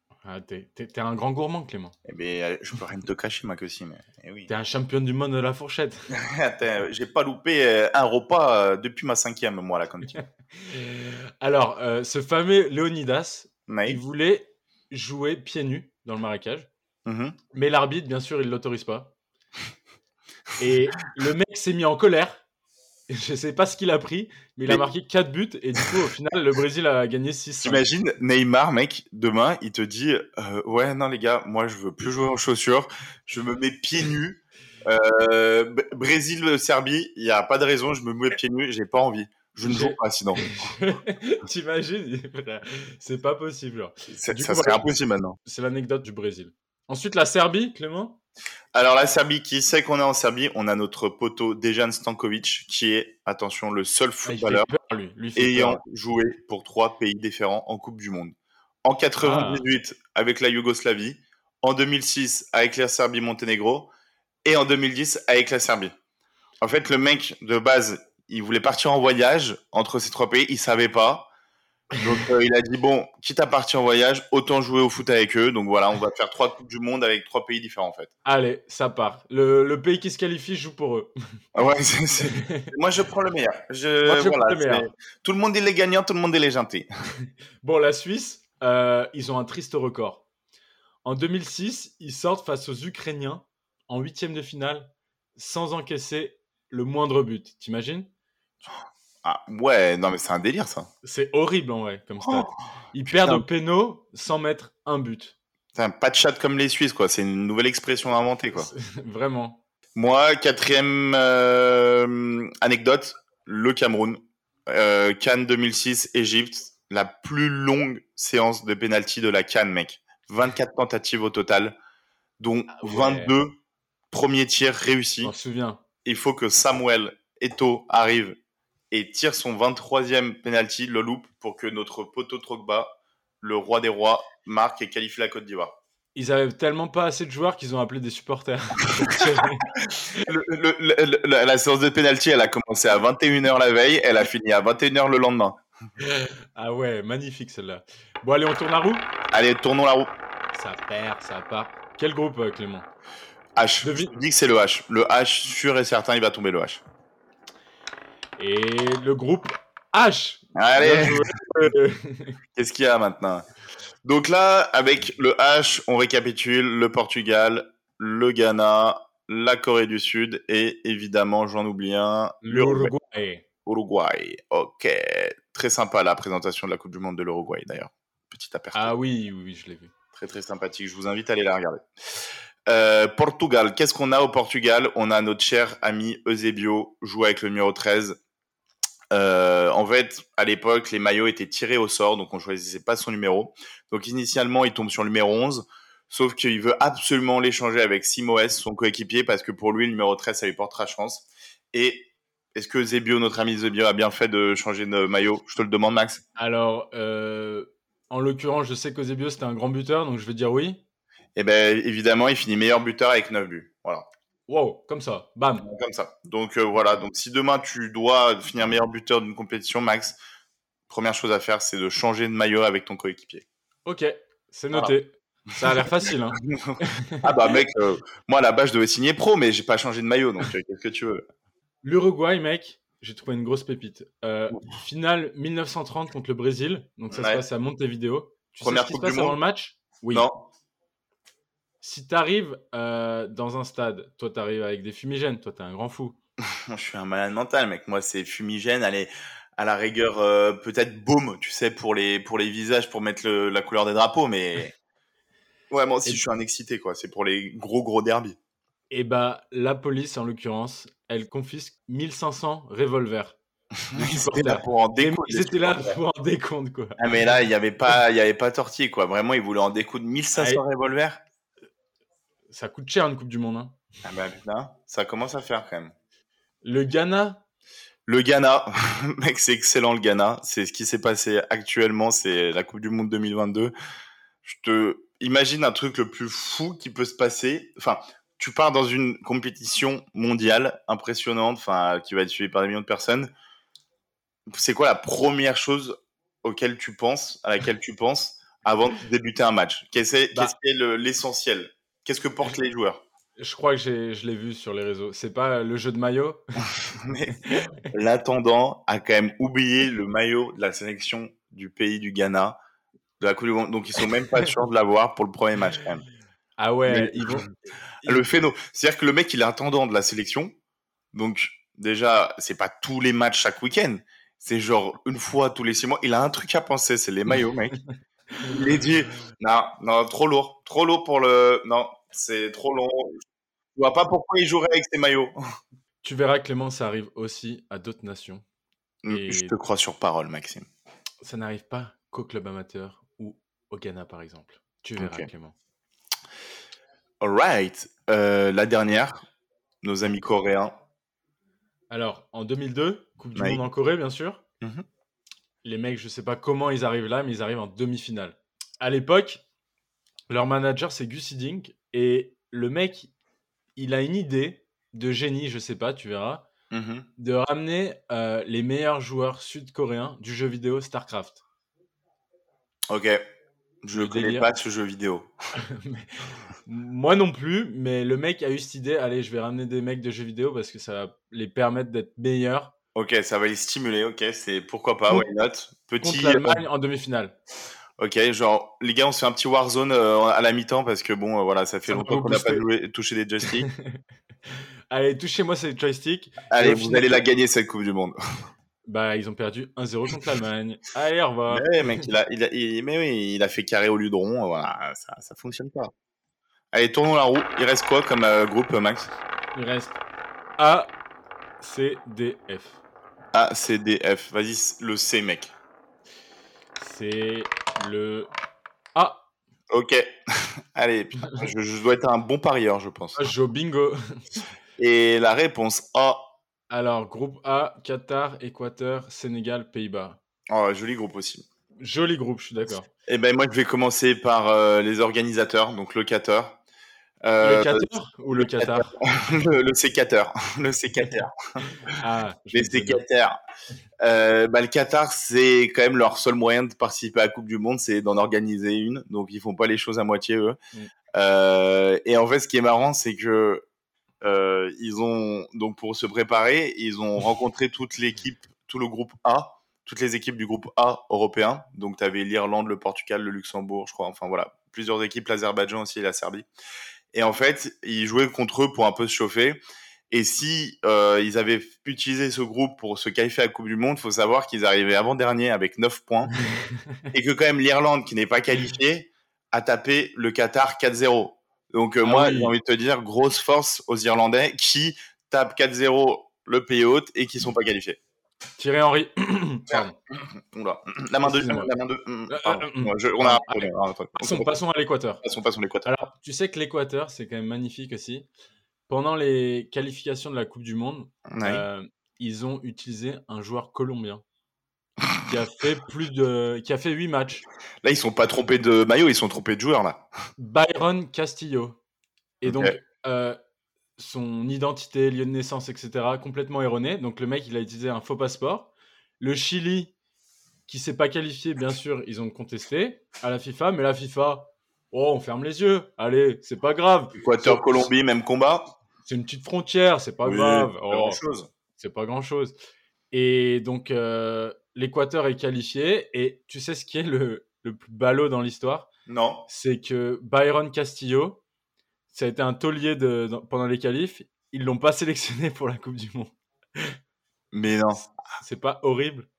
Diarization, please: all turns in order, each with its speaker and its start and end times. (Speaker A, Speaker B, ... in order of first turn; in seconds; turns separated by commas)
Speaker A: 0.2-1.9, Speaker B: 2.0-4.5, Speaker A: 4.5-6.1, Speaker B: 6.1-10.2, Speaker A: 10.2-16.7, Speaker B: 13.7-14.0, Speaker B: 17.1-17.4, Speaker A: 17.5-19.1, Speaker A: 20.6-22.4, Speaker A: 23.1-27.8, Speaker B: 27.6-40.7, Speaker A: 39.6-44.8, Speaker B: 44.1-45.4, Speaker A: 45.4-48.2, Speaker B: 48.7-54.7, Speaker A: 54.2-55.8, Speaker B: 55.4-63.9, Speaker A: 59.2-59.6, Speaker B: 64.4-65.9, Speaker B: 66.6-71.3, Speaker B: 72.0-78.1, Speaker A: 78.2-81.1, Speaker B: 81.5-86.9, Speaker A: 82.2-82.7, Speaker A: 84.0-84.9, Speaker A: 87.6-90.2, Speaker A: 91.0-98.1, Speaker B: 99.2-100.9, Speaker A: 101.0-105.3, Speaker B: 102.2-102.5, Speaker B: 103.1-103.4, Speaker B: 105.7-108.7, Speaker A: 108.5-109.6, Speaker B: 109.9-121.8, Speaker B: 122.4-123.6, Speaker A: 122.7-123.3, Speaker B: 124.1-125.3, Speaker A: 125.2-125.8, Speaker B: 126.0-128.4, Speaker B: 128.9-135.8, Speaker A: 136.1-140.3, Speaker B: 139.0-139.3, Speaker B: 140.2-145.6, Speaker A: 146.0-149.1, Speaker B: 149.3-150.1, Speaker A: 150.5-152.9, Speaker B: 153.6-156.8, Speaker A: 153.8-154.1, Speaker A: 158.4-162.4, Speaker B: 160.5-161.7, Speaker B: 162.5-163.4, Speaker B: 164.0-172.9, Speaker A: 172.4-173.4, Speaker B: 173.7-178.9, Speaker A: 178.7-179.9, Speaker B: 180.1-181.8, Speaker B: 182.7-188.2, Speaker B: 189.1-206.2, Speaker A: 206.4-210.8, Speaker B: 211.3-214.1, Speaker A: 214.5-215.7, Speaker B: 215.6-220.2, Speaker B: 220.9-223.4, Speaker A: 223.8-227.5, Speaker B: 225.6-231.2, Speaker A: 231.8-240.3, Speaker B: 237.1-237.4, Speaker B: 238.6-239.4, Speaker B: 240.1-240.5, Speaker A: 241.8-246.2, Speaker B: 246.5-254.7, Speaker B: 255.7-258.4, Speaker A: 258.9-263.4, Speaker B: 263.9-266.0, Speaker A: 263.9-267.1, Speaker B: 267.0-271.2, Speaker A: 270.3-270.6, Speaker A: 272.5-273.8, Speaker B: 274.0-275.9, Speaker A: 276.6-277.4, Speaker B: 278.1-283.7, Speaker B: 284.4-293.3, Speaker B: 294.5-303.0, Speaker A: 303.4-306.6, Speaker B: 306.8-312.6, Speaker A: 307.3-307.8, Speaker B: 313.2-316.1, Speaker A: 316.6-317.5, Speaker B: 316.9-317.5, Speaker B: 318.0-320.5, Speaker B: 321.1-327.8, Speaker B: 328.4-333.2, Speaker B: 333.7-335.3, Speaker A: 336.0-338.4, Speaker B: 339.0-340.7, Speaker A: 339.1-339.6, Speaker A: 341.2-345.6, Speaker B: 345.0-345.3, Speaker B: 347.2-349.2, Speaker B: 349.8-350.8, Speaker A: 351.9-354.4, Speaker B: 353.3-353.6, Speaker A: 355.6-359.4, Speaker A: 360.3-363.1, Speaker A: 363.8-366.5, Speaker B: 366.7-367.1, Speaker A: 367.2-371.4, Speaker B: 372.9-373.2, Speaker B: 373.8-375.3, Speaker A: 373.9-374.5, Speaker A: 375.6-382.7, Speaker B: 382.9-386.6, Speaker A: 386.0-387.4, Speaker B: 388.0-393.7, Speaker A: 391.9-392.6, Speaker A: 393.5-394.0, Speaker A: 394.9-397.2, Speaker B: 396.5-398.1, Speaker A: 398.9-402.0, Speaker B: 401.5-405.9, Speaker B: 406.7-409.1, Speaker A: 409.5-410.0, Speaker A: 410.6-410.9, Speaker A: 411.6-412.8, Speaker B: 413.3-415.5, Speaker A: 416.8-418.3, Speaker A: 418.9-419.2, Speaker B: 419.7-423.3, Speaker A: 423.1-424.4, Speaker B: 424.8-426.3, Speaker A: 426.7-430.2, Speaker B: 430.5-431.4, Speaker A: 431.8-432.9, Speaker B: 433.1-436.6, Speaker B: 437.2-441.3, Speaker A: 437.4-438.9, Speaker A: 441.8-443.0, Speaker B: 442.5-443.4, Speaker B: 444.0-450.6, Speaker B: 451.1-453.6, Speaker B: 454.2-466.5, Speaker B: 467.1-476.3, Speaker B: 477.1-488.0, Speaker A: 482.0-482.5, Speaker A: 488.6-490.0, Speaker B: 489.7-494.5, Speaker A: 491.2-491.7, Speaker A: 492.3-495.2, Speaker B: 495.2-495.9, Speaker A: 495.8-498.3, Speaker A: 498.9-504.2, Speaker B: 501.3-501.6, Speaker A: 505.2-507.4, Speaker B: 507.8-510.0, Speaker A: 510.4-511.8, Speaker A: 512.4-513.4, Speaker B: 512.4-512.8, Speaker A: 514.0-519.9, Speaker A: 520.7-527.9, Speaker B: 527.1-528.7, Speaker A: 529.0-531.2, Speaker B: 530.2-531.5, Speaker A: 531.7-532.5, Speaker A: 533.1-538.9, Speaker B: 539.1-539.5, Speaker A: 539.5-541.4, Speaker A: 542.1-546.9, Speaker B: 547.5-548.1, Speaker A: 548.4-549.3